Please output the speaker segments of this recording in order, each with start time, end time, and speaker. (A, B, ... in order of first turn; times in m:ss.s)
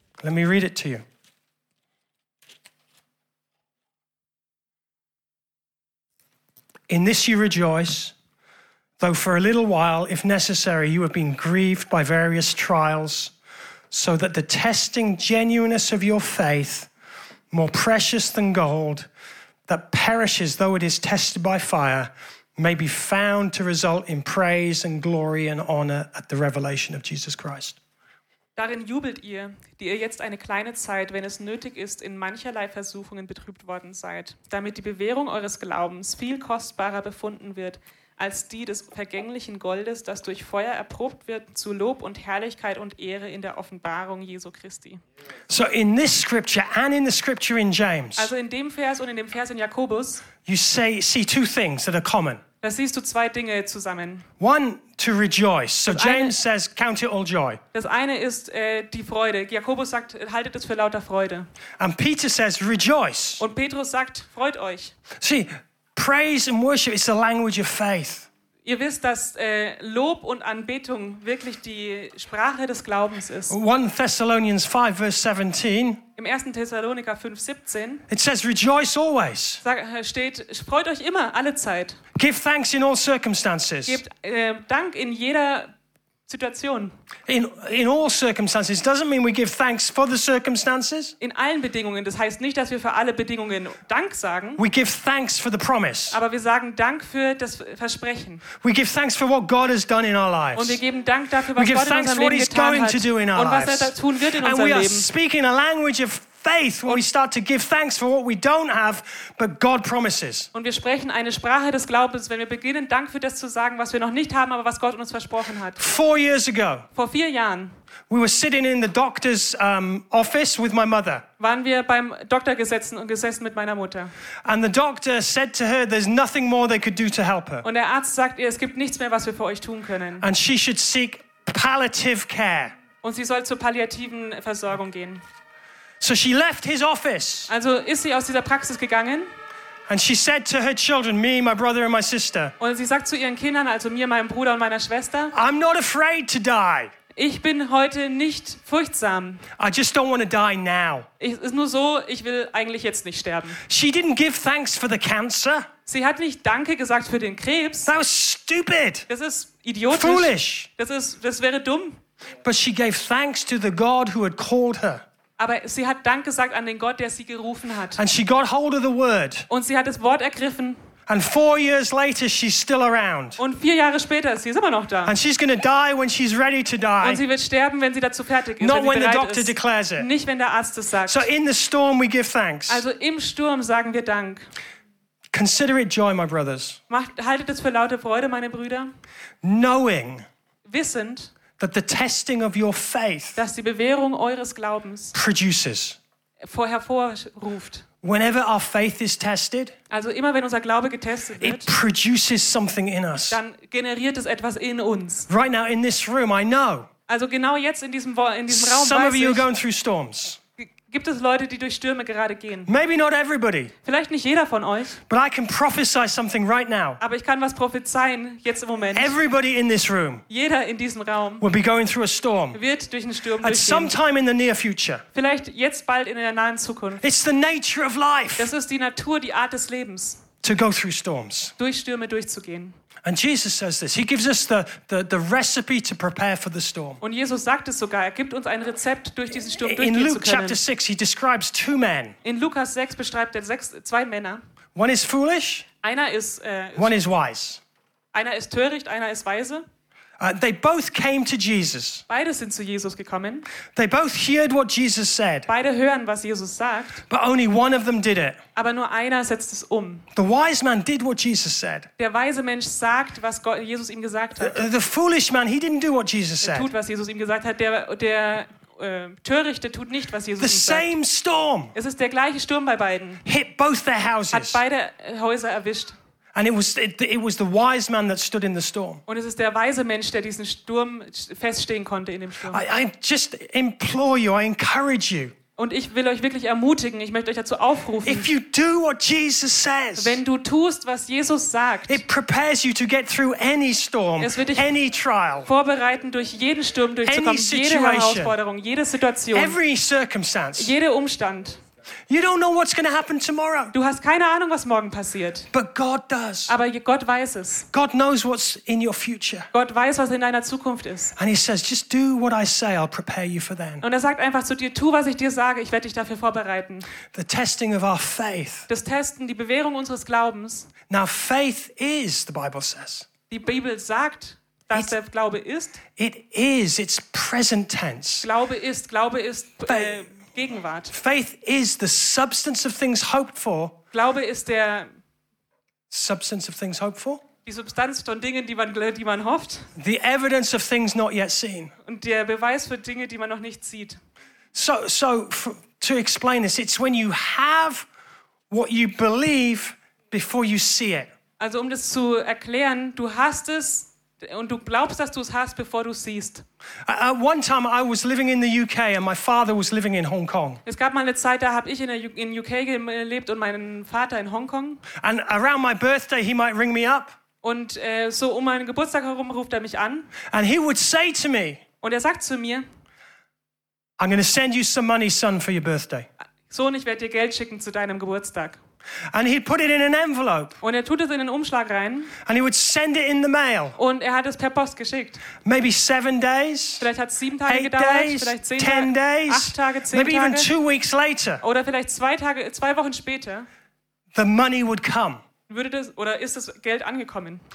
0:00.2-0:01.0 A
0:06.9-0:08.1 A
0:09.0-0:13.3 A
0:13.9-0:16.9 A
0:17.5-0:19.1 A
0:19.7-0:27.8 A
0:28.6-0:45.0 B
0:45.5-0:48.3 A
0:48.2-0:50.3 B
0:50.5-0:52.4 A
0:52.6-0:54.3 B
0:54.4-0:57.6 A
0:55.9-0:56.4 B
0:57.7-1:01.5 B
1:01.8-1:03.4 A
1:03.4-1:05.0 B
1:05.2-1:08.3 A
1:08.6-1:13.6 B
1:13.5-1:16.0 A
1:16.2-1:18.0 B
1:18.1-1:19.6 A
1:19.6-1:22.0 B
1:22.2-1:24.0 A
1:23.9-1:25.7 B
1:26.3-1:26.9 B
1:27.3-1:31.1 A
1:31.2-1:34.6 B
1:34.6-1:36.2 A
1:36.1-1:38.4 B
1:38.6-1:40.8 A
1:40.6-1:45.1 B
1:41.6-1:50.5 A
1:50.5-1:55.9 B
1:55.8-1:56.9 A
1:57.0-1:57.7 B
1:58.1-2:01.2 A
2:01.4-2:04.1 B
2:04.4-2:07.6 A
2:07.6-2:10.2 B
2:10.2-2:12.8 A
2:13.0-2:15.2 B
2:16.0-2:17.5 A
2:17.5-2:19.3 B
2:19.9-2:22.6 A
2:22.6-2:25.3 B
2:25.3-2:26.9 A
2:27.2-2:29.4 B
2:29.6-2:31.1 A
2:31.2-2:33.6 B
2:33.7-2:35.7 A
2:35.9-2:37.9 B
2:37.9-2:39.1 A
2:39.1-2:42.0 B
2:39.9-2:40.7 A
2:42.4-2:45.0 A
2:45.4-2:48.0 B
2:48.0-2:49.5 A
2:49.5-2:50.8 B
2:51.1-2:53.4 A
2:53.4-2:55.2 B
2:55.1-2:57.2 A
2:57.0-3:01.3 B
2:58.6-3:00.1 A
3:01.1-3:02.8 A
3:02.7-3:04.5 B
3:05.3-3:06.8 A
3:06.9-3:08.9 B
3:09.4-3:10.2 A
3:10.7-3:11.3 B
3:11.6-3:13.4 A
3:13.4-3:15.2 B
3:15.1-3:16.0 A
3:16.4-3:17.9 B
3:18.0-3:19.8 A
3:19.9-3:21.7 B
3:21.4-3:23.4 A
3:23.3-3:25.3 B
3:25.3-3:26.9 A
3:27.1-3:29.5 B
3:28.5-3:30.4 A
3:30.6-3:32.7 B
3:32.7-3:33.7 A
3:33.8-3:35.0 B
3:35.1-3:37.0 A
3:37.0-3:39.2 B
3:39.0-3:40.2 A
3:40.3-3:41.4 B
3:41.4-3:42.6 A
3:42.5-3:44.0 B
3:43.4-3:45.0 A
3:45.1-3:47.0 B
3:47.0-3:48.5 A
3:48.4-3:50.2 B
3:50.4-3:51.6 A
3:51.6-3:52.8 B
3:53.0-3:57.0 A
3:57.0-4:00.6 B
3:59.6-4:02.2 A
4:02.2-4:04.4 B
4:04.8-4:05.7 A
4:05.8-4:07.0 B
4:06.8-4:07.6 A
4:08.1-4:09.7 B
4:10.2-4:12.0 A
4:12.1-4:13.5 B
4:13.8-4:15.5 A
4:15.5-4:17.0 B
4:17.1-4:18.4 A
4:18.6-4:20.1 B
4:20.2-4:21.9 A
4:22.0-4:24.6 B
4:24.4-4:26.7 A
4:26.4-4:30.9 B
4:30.4-4:31.7 A
4:31.8-4:33.2 B
4:33.2-4:34.6 A
4:34.3-4:36.0 B
4:36.4-4:39.0 A
4:39.1-4:42.6 B
4:42.5-4:45.3 A
4:45.6-4:48.3 B
4:48.0-4:50.2 A
4:50.0-4:52.0 B
4:51.9-4:55.5 A
4:54.2-4:54.7 B
4:55.5-4:59.6 B
4:57.1-4:58.4 A
4:59.3-5:00.7 A
5:00.6-5:01.6 B
5:02.1-5:03.7 A
5:03.7-5:05.5 B
5:05.5-5:06.5 A
5:06.5-5:07.7 B
5:07.7-5:09.5 A
5:09.5-5:11.2 B
5:11.2-5:13.8 A
5:13.8-5:16.9 B
5:17.1-5:18.7 A
5:18.7-5:20.7 B
5:20.9-5:23.1 A
5:23.3-5:25.8 B
5:26.0-5:28.3 A
5:28.2-5:31.0 B
5:29.7-5:30.0 A
5:30.9-5:33.8 A
5:33.9-5:34.9 B
5:35.9-5:37.2 A
5:37.5-5:39.7 B
5:39.8-5:41.7 A
5:41.8-5:44.0 B
5:44.5-5:47.9 A
5:48.5-5:51.1 A
5:51.4-5:56.4 B
5:56.9-6:00.6 A
6:00.7-6:04.8 B
6:05.0-6:07.2 A
6:07.4-6:10.1 B
6:10.3-6:11.6 A
6:11.8-6:12.7 B
6:14.0-6:16.1 A
6:16.5-6:18.6 B
6:19.1-6:20.6 A
6:20.6-6:22.2 B
6:22.2-6:23.8 A
6:23.8-6:25.2 B
6:25.4-6:26.9 A
6:26.8-6:30.5 B
6:27.5-6:31.4 A
6:31.4-6:33.5 B
6:34.1-6:35.2 A
6:35.5-6:37.4 B